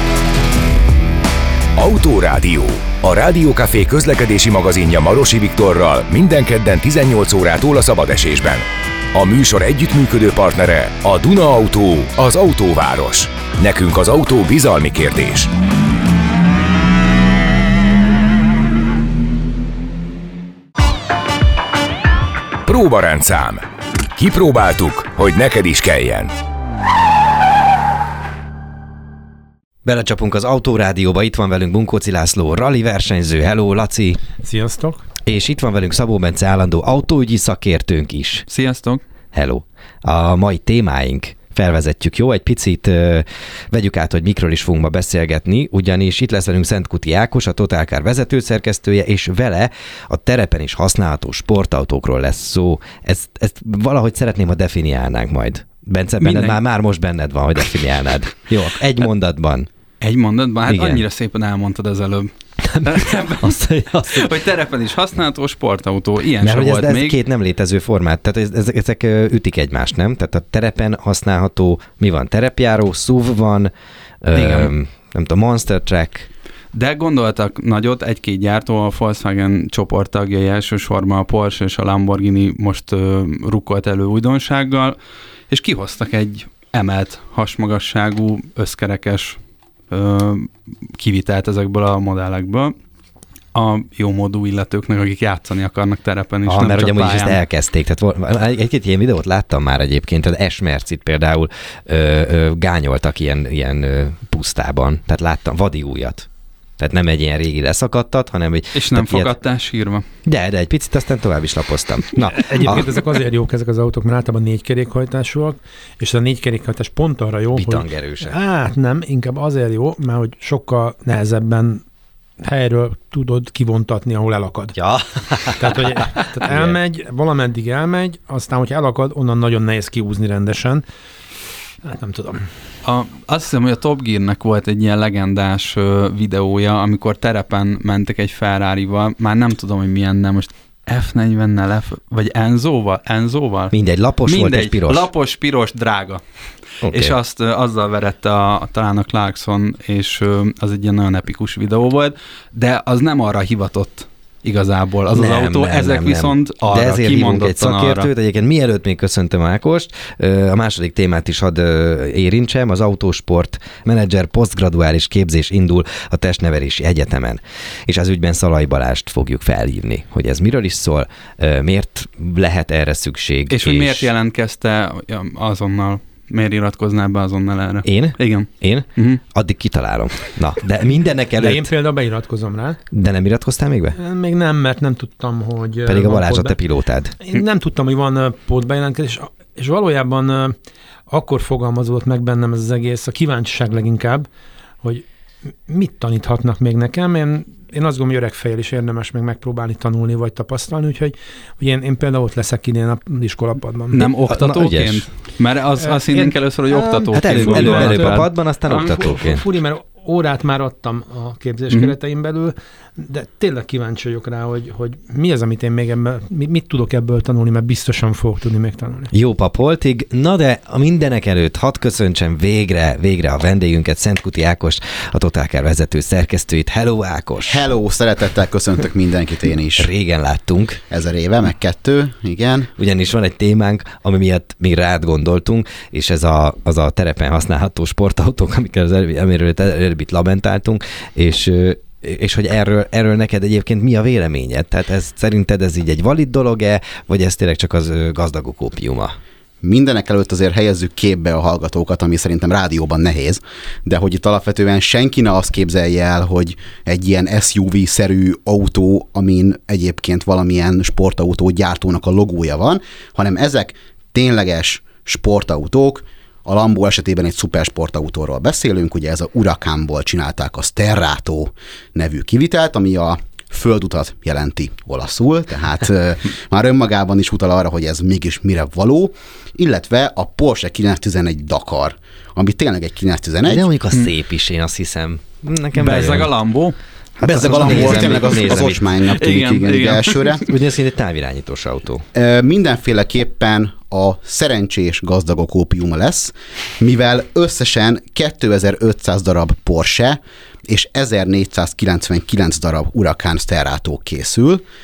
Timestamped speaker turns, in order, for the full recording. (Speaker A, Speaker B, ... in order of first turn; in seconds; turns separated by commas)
Speaker A: 1.8-15.5, Speaker A: 22.6-23.6, Speaker A: 24.1-26.3, Speaker B: 29.9-34.2, Speaker C: 34.4-35.0, Speaker B: 35.2-38.5, Speaker D: 38.5-39.0, Speaker B: 39.3-59.7, Speaker D: 56.2-56.6, Speaker D: 60.0-63.6, Speaker B: 60.7-61.0, Speaker B: 62.6-64.3, Speaker D: 64.1-67.2, Speaker B: 66.4-73.7, Speaker B: 74.2-76.3, Speaker D: 74.3-74.7, Speaker D: 76.7-85.0, Speaker D: 85.5-92.8, Speaker D: 93.5-97.4, Speaker B: 96.5-106.3, Speaker B: 106.8-109.3, Speaker D: 108.8-110.0, Speaker B: 110.2-112.9, Speaker C: 112.3-121.8, Speaker B: 117.6-118.3, Speaker C: 122.4-124.8, Speaker B: 124.8-126.8, Speaker C: 125.6-130.8, Speaker C: 131.8-132.5, Speaker D: 132.8-158.1, Speaker B: 143.7-145.1, Speaker B: 146.8-147.2, Speaker B: 155.1-174.1, Speaker D: 173.5-179.2, Speaker B: 177.8-181.7, Speaker C: 181.4-182.8, Speaker B: 182.9-184.0, Speaker C: 183.9-186.6, Speaker B: 185.9-187.2, Speaker C: 187.2-190.6, Speaker C: 191.1-194.3, Speaker C: 195.7-204.0, Speaker D: 203.9-208.3, Speaker B: 204.0-205.1, Speaker C: 205.8-206.3, Speaker C: 206.8-219.1, Speaker B: 206.8-209.4, Speaker B: 219.1-227.7, Speaker E: 227.5-229.9, Speaker B: 229.8-230.8, Speaker E: 230.9-232.7, Speaker B: 232.8-249.2, Speaker E: 249.6-283.7, Speaker B: 283.4-286.3, Speaker D: 285.8-286.8, Speaker B: 287.2-288.9, Speaker E: 287.2-290.4, Speaker D: 287.4-290.5, Speaker B: 290.5-292.1, Speaker E: 292.1-304.6